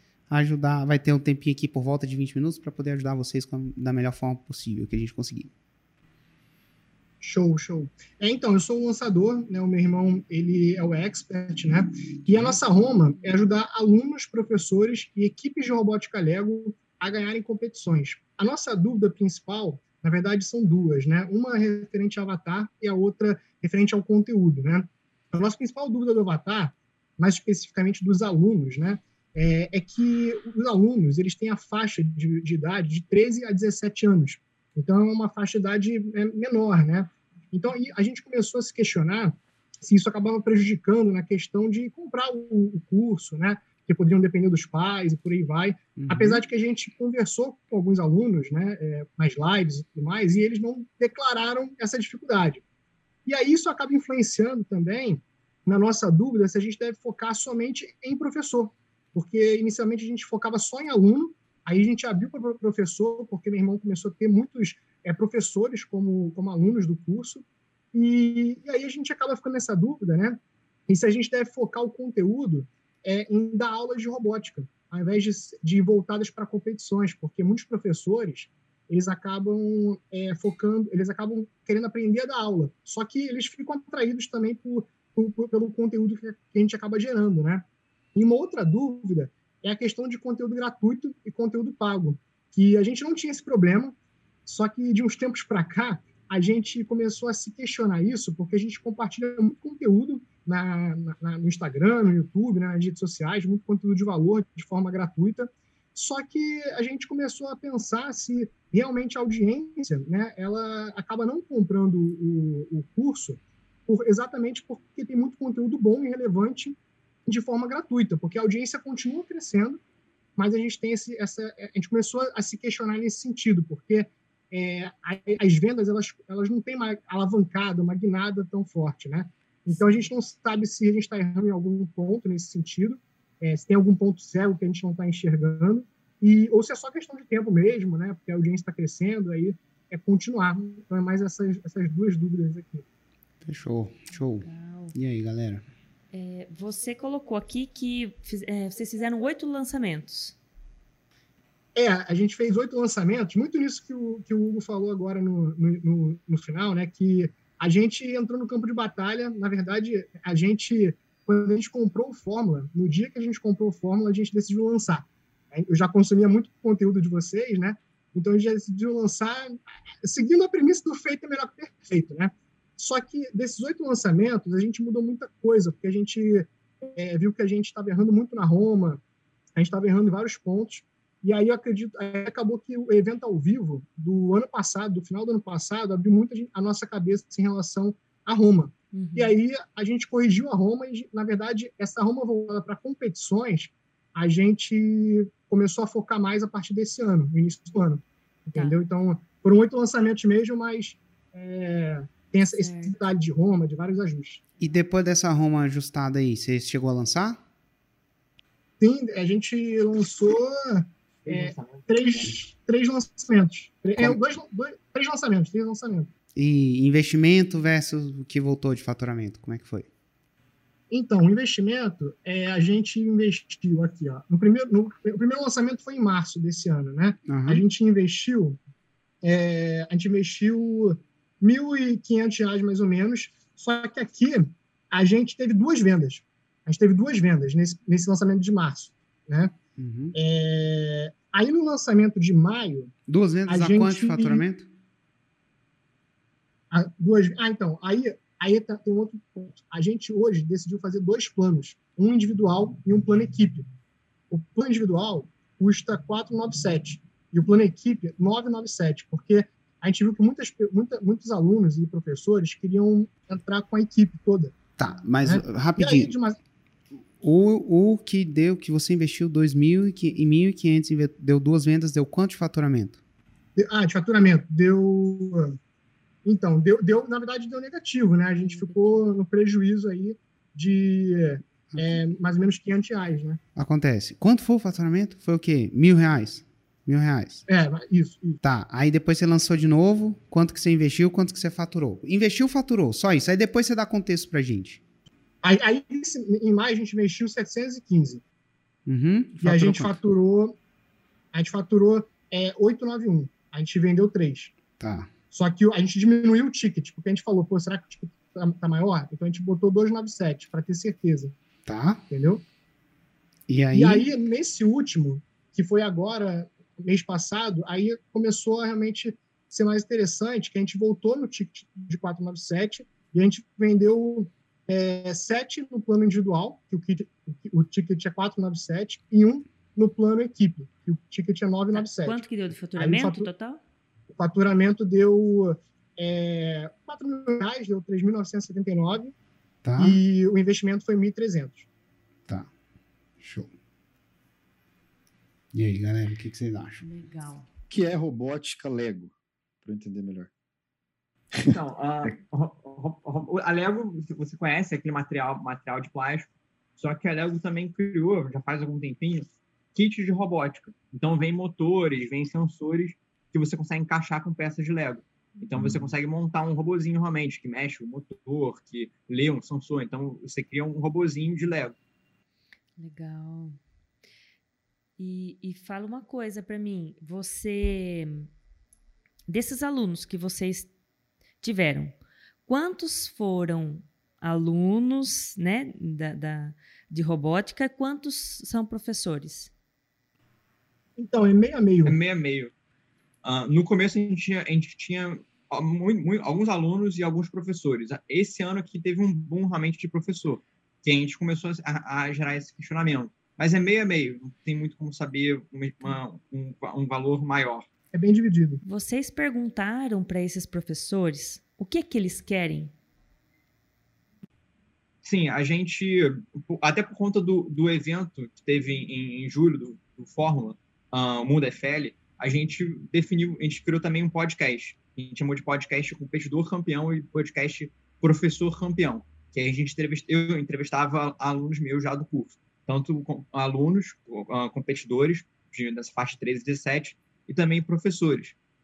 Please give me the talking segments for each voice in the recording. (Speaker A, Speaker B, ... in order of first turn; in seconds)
Speaker A: 0.3-5.5, 46.0-46.5, 143.4-145.7, 204.6-207.4, 216.3-219.9, 227.3-227.6, 239.8-240.2, 243.1-244.7, 264.8-266.1, 267.2-273.0, 281.7-282.0, 283.6-287.4, 288.4-294.8, 298.9-300.0, 304.8-305.1, 311.7-312.0, 313.5-314.1, 339.6-340.0, 343.2-343.5, 345.5-346.8
Speaker B: 7.2-52.6, 53.3-94.0, 94.5-119.8, 120.4-142.8, 151.8-179.0, 179.6-204.4, 208.8-216.1, 220.9-228.6, 229.2-239.5, 240.1-242.9, 243.5-244.4, 246.7-253.7, 254.3-264.6, 265.2-266.4, 273.6-275.6, 276.2-283.4, 287.5-288.4, 295.4-298.2, 299.4-300.6, 301.3-304.6, 305.3-311.4, 312.1-312.4, 313.7-332.2, 332.8-333.3, 334.1-339.1, 339.8-341.7, 391.0-392.0, 407.9-408.6
Speaker C: 129.7-130.1, 144.4-144.9, 146.1-150.4, 188.9-189.4, 202.6-203.0, 278.4-279.2, 331.7-333.6, 346.8-347.5, 372.8-373.6, 375.0-378.3, 379.3-380.7, 381.4-389.5, 408.6-412.7
Speaker D: 211.3-212.3, 351.4-371.8, 391.9-392.5, 393.2-407.7, 415.0-438.4
Speaker E: 347.7-349.1, 349.6-350.3, 351.3-352.1